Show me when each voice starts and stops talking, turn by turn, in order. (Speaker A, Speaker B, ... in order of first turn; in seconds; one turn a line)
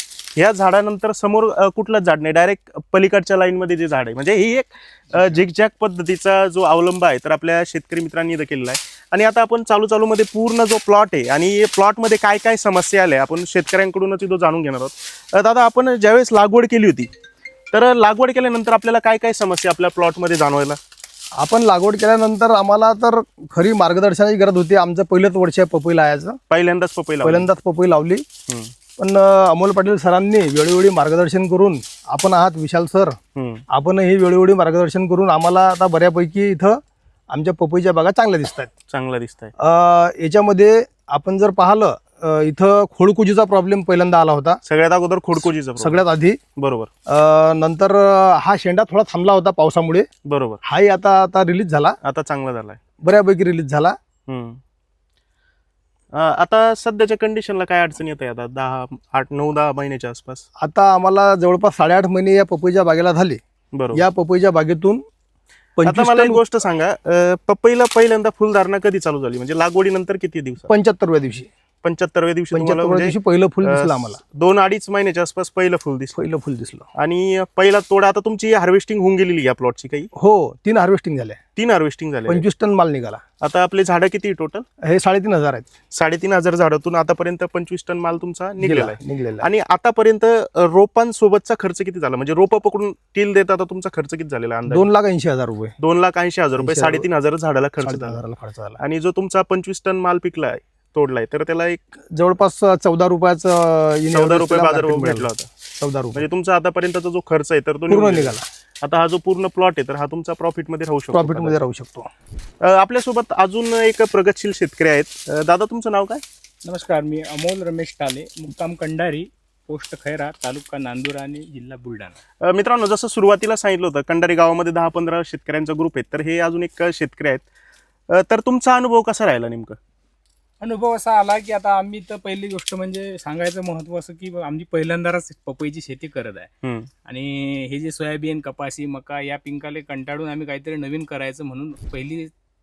Speaker A: 0.3-17.1
Speaker B: 5.1-5.4
Speaker A: 17.7-20.8
Speaker C: 21.4-26.4
Speaker A: 26.5-27.5
Speaker C: 27.2-28.2
Speaker C: 29.0-33.2
Speaker A: 33.3-33.6
Speaker C: 33.7-36.8
Speaker C: 37.3-38.7
Speaker A: 38.9-39.5
Speaker C: 39.6-44.6
Speaker A: 44.6-46.0
Speaker C: 45.8-46.4
Speaker A: 46.6-46.9
Speaker C: 47.1-50.0
Speaker A: 50.2-50.6
Speaker C: 50.6-52.0
Speaker A: 52.0-52.8
Speaker C: 53.0-53.9
Speaker A: 54.3-54.6
Speaker A: 56.1-60.4
Speaker C: 60.6-63.4
Speaker A: 63.7-64.0
Speaker C: 63.9-65.0
Speaker C: 65.8-66.4
Speaker A: 65.8-70.7
Speaker C: 70.7-71.5
Speaker A: 71.8-76.2
Speaker C: 72.5-74.2
Speaker C: 76.1-76.9
Speaker A: 77.0-80.1
Speaker C: 80.2-81.4
Speaker A: 81.5-82.4
Speaker C: 82.3-83.2
Speaker A: 83.4-84.6
Speaker C: 84.8-85.7
Speaker A: 85.9-94.9
Speaker C: 88.6-89.5
Speaker C: 94.7-95.7
Speaker A: 95.8-98.2
Speaker C: 96.6-97.0
Speaker C: 97.8-98.8
Speaker A: 98.8-101.8
Speaker C: 102.1-105.3
Speaker A: 104.1-105.5
Speaker C: 105.8-106.2
Speaker A: 106.1-111.6
Speaker C: 107.9-108.4
Speaker C: 111.1-112.1
Speaker A: 112.6-116.2
Speaker B: 116.6-122.2
Speaker A: 122.4-127.5
Speaker A: 128.1-129.8
Speaker B: 130.6-136.5
Speaker A: 136.6-136.9
Speaker B: 137.1-142.3